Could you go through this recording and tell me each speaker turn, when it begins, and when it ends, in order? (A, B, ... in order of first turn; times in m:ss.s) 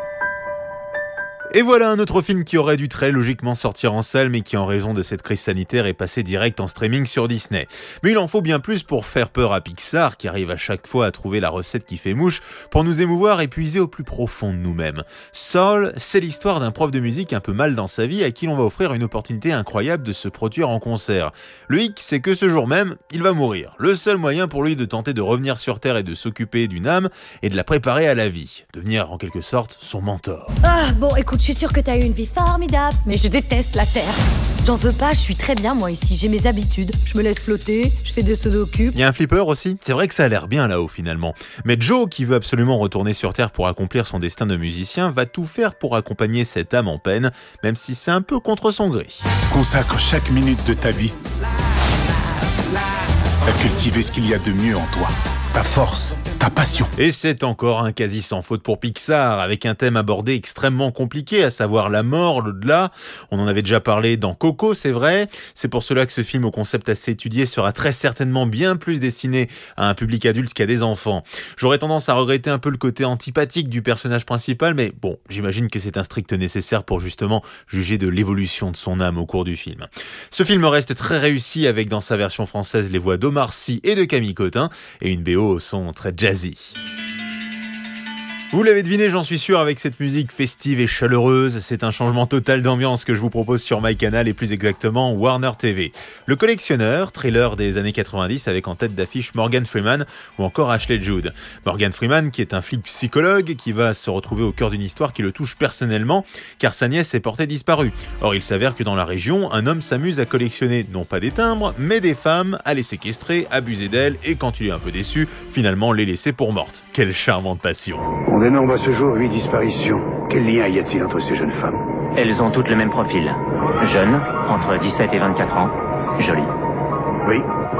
0:01.5-0:30.5 A
0:30.6-0:39.0 B
0:38.9-0:49.2 A
0:49.5-0:51.2 C
0:53.4-0:56.9 C
0:57.0-1:26.7 A
1:28.5-1:58.1 A
1:58.3-2:01.8 D
2:02.1-2:06.5 E